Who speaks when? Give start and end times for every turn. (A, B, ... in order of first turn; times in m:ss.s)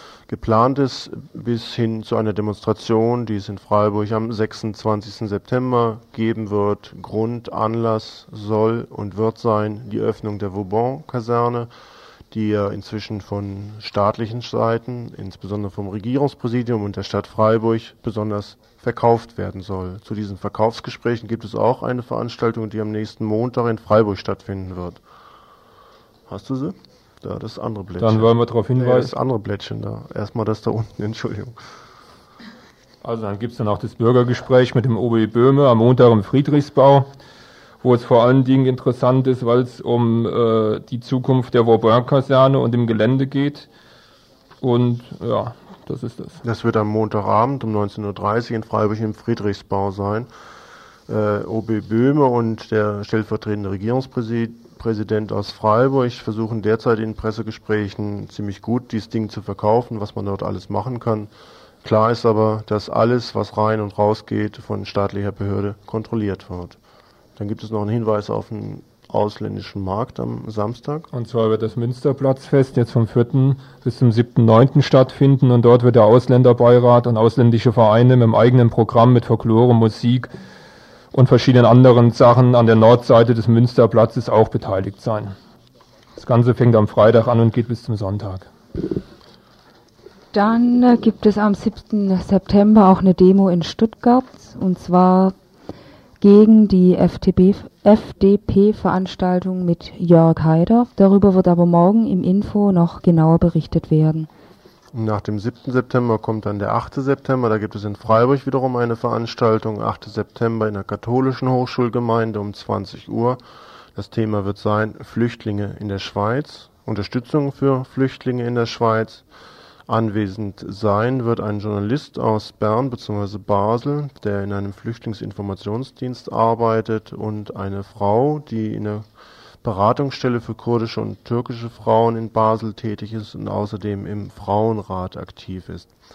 0:00.3-0:11.7 A
0:12.3-0:25.0 A
0:26.3-0:31.6 A
0:28.0-0:29.1 B
0:33.0-0:37.1 B
0:37.8-0:43.7 B
0:44.6-0:46.4 B
0:46.4-0:50.3 A
0:51.1-1:01.3 A
1:01.8-1:06.8 A
1:07.4-1:11.1 A
1:11.1-1:20.3 B
1:21.1-1:25.3 B
1:26.2-1:28.5 B
1:30.3-1:35.3 C
1:36.2-1:44.3 C
1:44.9-1:53.4 A
1:53.9-1:59.2 A
1:59.9-2:09.0 A
2:09.6-2:15.9 A